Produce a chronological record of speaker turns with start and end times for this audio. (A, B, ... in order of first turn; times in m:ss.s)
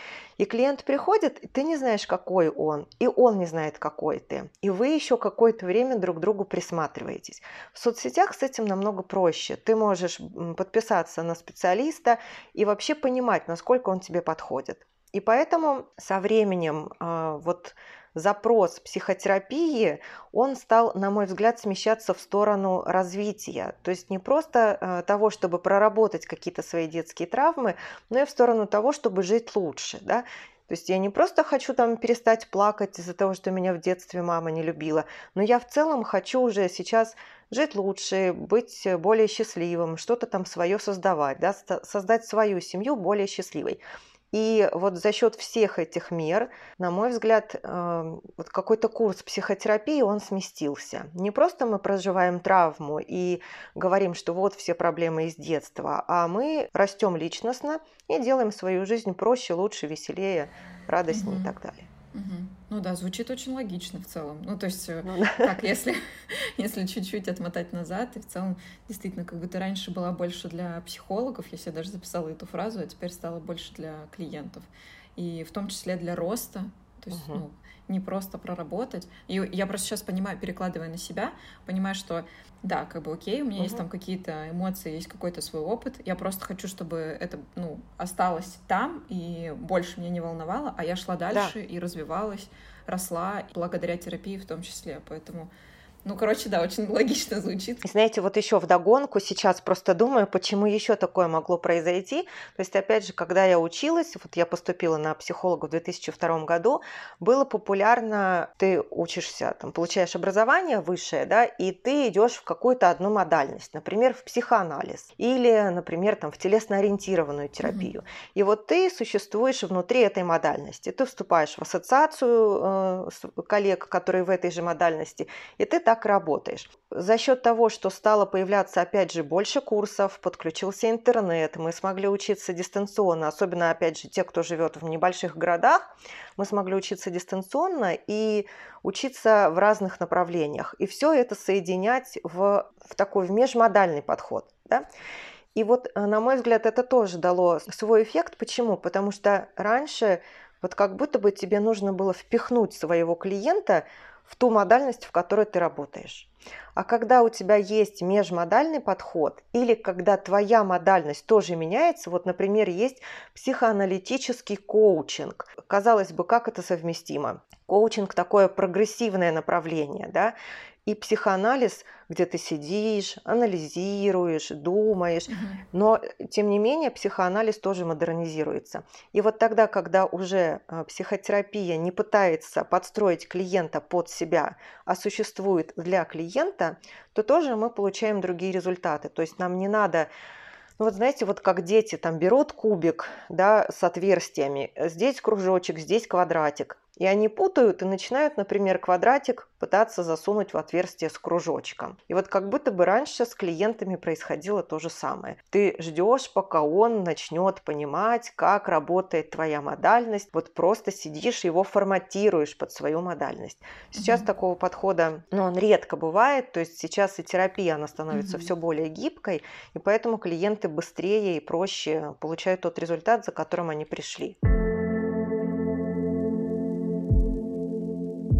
0:00.4-0:43.8 A
0:44.3-1:01.9 A
1:01.1-1:01.6 B
1:02.1-1:35.5 B
1:05.0-1:05.6 A
1:17.1-1:17.4 A
1:23.6-1:23.8 A
1:36.0-1:37.8 B
1:37.8-2:24.9 A
1:57.6-1:57.9 B
2:25.6-2:50.4 A
2:50.9-3:10.1 A
2:55.3-2:55.6 B
3:10.8-3:44.4 A
3:34.0-3:34.2 B